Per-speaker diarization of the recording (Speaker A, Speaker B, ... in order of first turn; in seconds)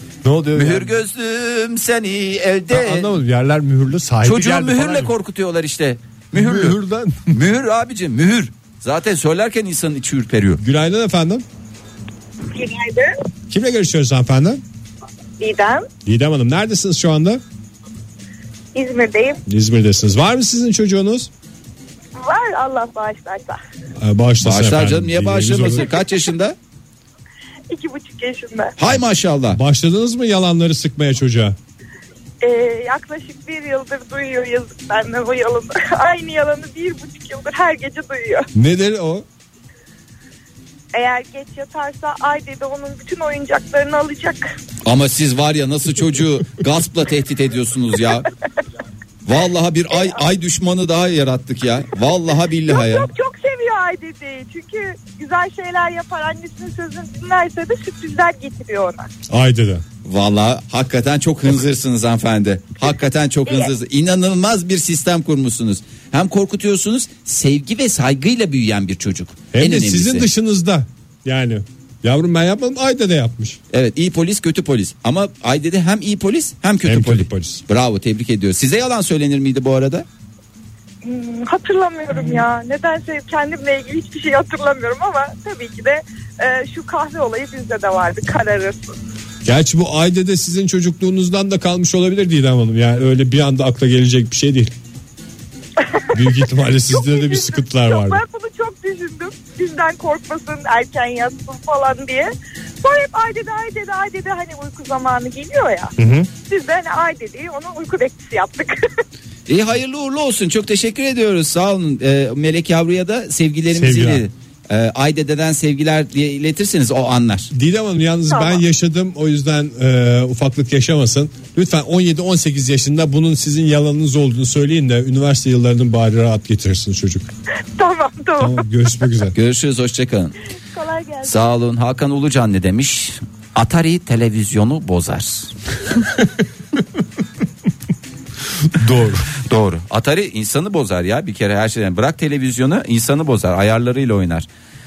Speaker A: 0.2-0.9, 2.7-5.1, 6.3-7.4, 10.6-11.4, 13.5-14.6, 16.1-17.4, 19.5-21.3, 24.0-25.9, 29.5-31.6, 38.5-39.2, 59.3-59.8, 69.5-73.6, 76.8-77.6, 89.4-94.7, 96.1-98.2, 106.0-106.3, 113.7-114.2, 117.5-127.3, 128.4-129.3, 138.7-139.3
Speaker B: 0.6-3.2, 4.2-10.6, 24.4-26.6, 28.8-29.6, 44.9-48.3, 49.3-53.1, 60.0-70.3, 73.7-80.1, 109.5-117.5, 129.3-130.3, 131.2-135.5, 139.4-144.5
Speaker C: 12.5-13.1, 15.4-15.9, 18.8-19.4, 22.2-23.6, 27.7-28.7, 32.4-38.5, 40.9-44.5, 52.7-59.1, 63.5-63.7, 81.0-88.9, 95.8-102.3, 102.8-105.9, 106.5-108.8, 118.3-118.6, 127.8-128.6, 130.7-131.4